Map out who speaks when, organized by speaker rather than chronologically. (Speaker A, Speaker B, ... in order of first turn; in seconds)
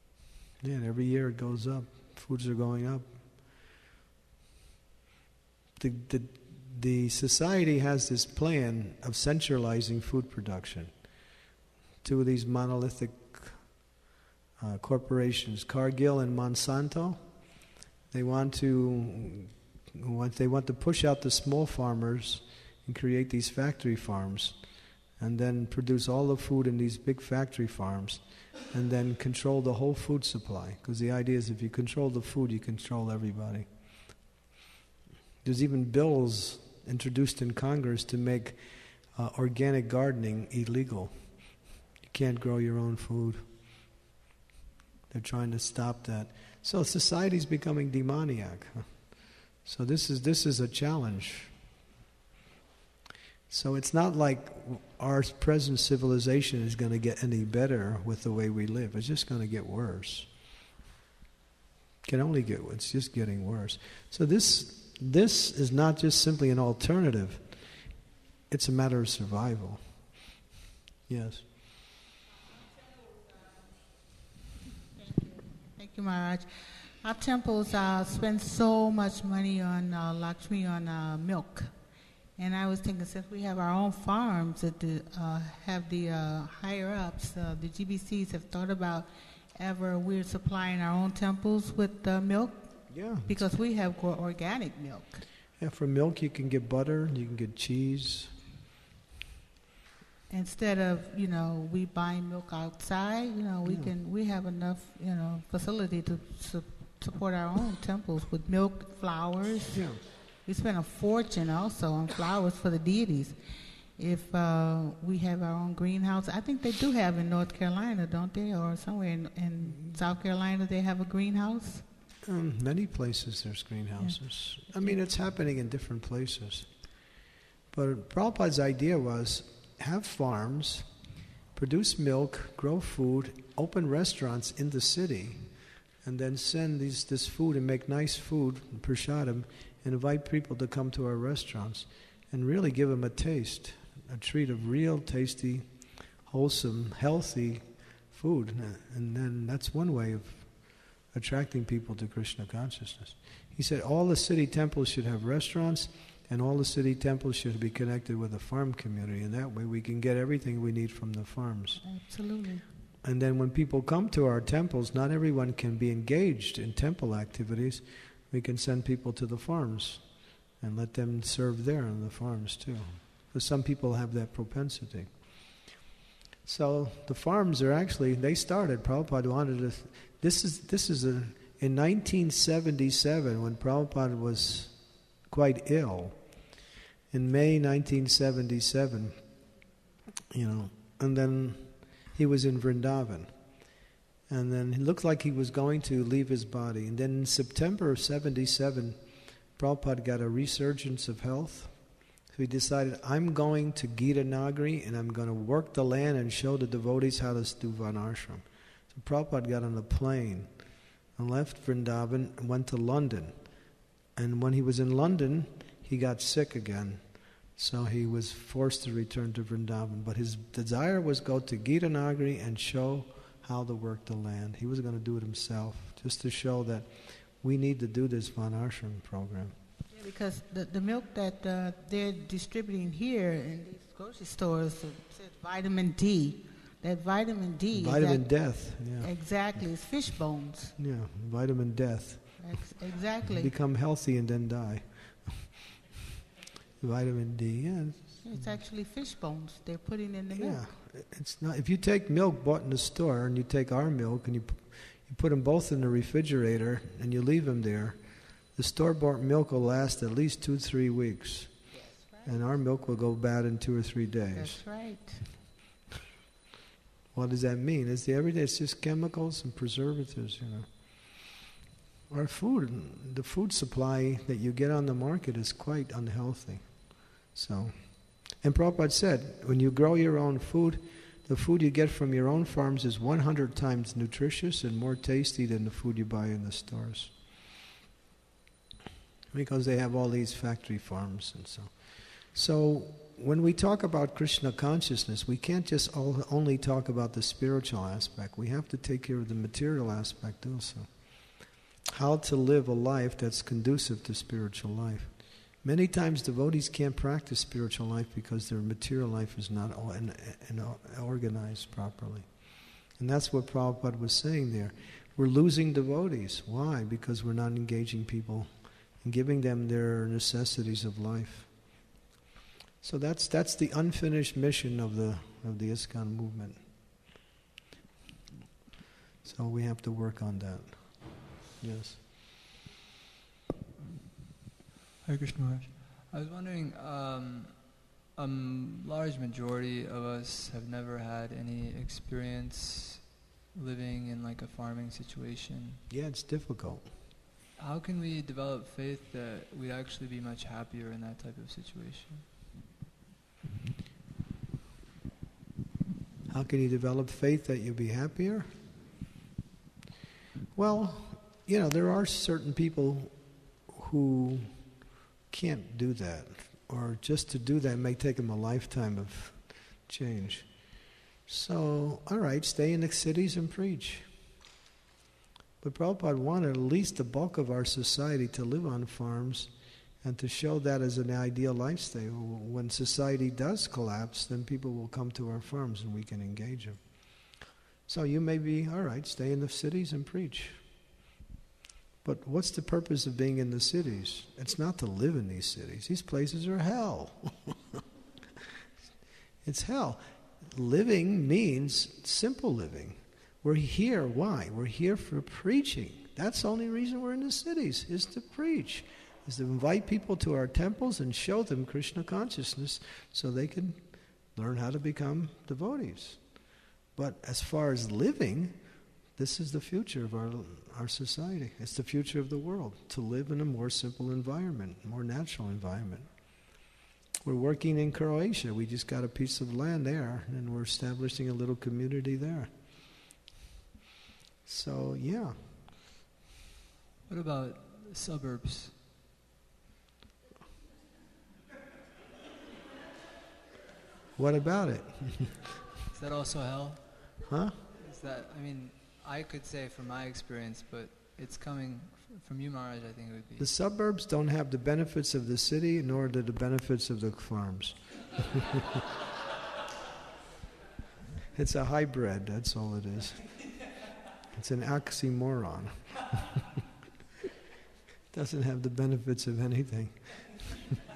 Speaker A: 0.6-3.1, 5.8-10.9, 12.0-13.8, 14.6-17.2, 18.1-24.6, 25.2-33.7, 35.4-41.2, 42.0-43.5, 45.1-49.0, 49.6-51.5, 53.5-60.3, 62.0-67.6, 68.5-69.8, 71.1-71.5, 92.9-93.6, 95.6-98.3, 103.7-104.0, 109.7-110.0, 119.6-120.0, 122.2-126.7, 127.7-130.9, 131.6-145.7, 146.2-161.8, 163.0-170.1, 170.6-175.2, 176.4-186.2, 187.1-189.2, 190.3-193.3, 194.3-199.0, 199.6-210.5, 211.2-213.4, 214.2-217.0, 217.6-229.6, 237.7-239.6, 240.8-242.5, 243.3-245.5, 246.8-248.6, 250.3-261.6, 262.2-264.6, 267.1-271.4, 272.1-287.1, 289.3-300.9, 301.9-312.3, 313.0-318.5, 319.0-321.5, 322.8-326.6, 329.2-331.0, 331.6-332.0, 345.9-346.9, 356.3-358.5, 360.5-370.5, 371.3-374.1, 375.6-386.8, 387.9-390.6, 392.0-397.8, 399.4-413.8, 414.3-416.2, 416.9-418.6, 419.2-426.1, 427.2-432.5, 434.4-435.6, 444.2-445.4, 447.3-447.6, 453.4-458.6, 461.3-463.3, 464.3-466.4, 468.1-470.4
Speaker B: 75.8-76.5, 77.0-81.8, 82.4-95.2, 100.3-113.4, 114.0-121.8, 124.0-125.0, 161.8-162.7, 229.9-240.8, 242.4-243.5, 248.2-250.7, 261.7-262.6, 264.3-265.4
Speaker C: 335.0-345.8, 347.6-352.3, 437.1-438.8, 445.9-453.5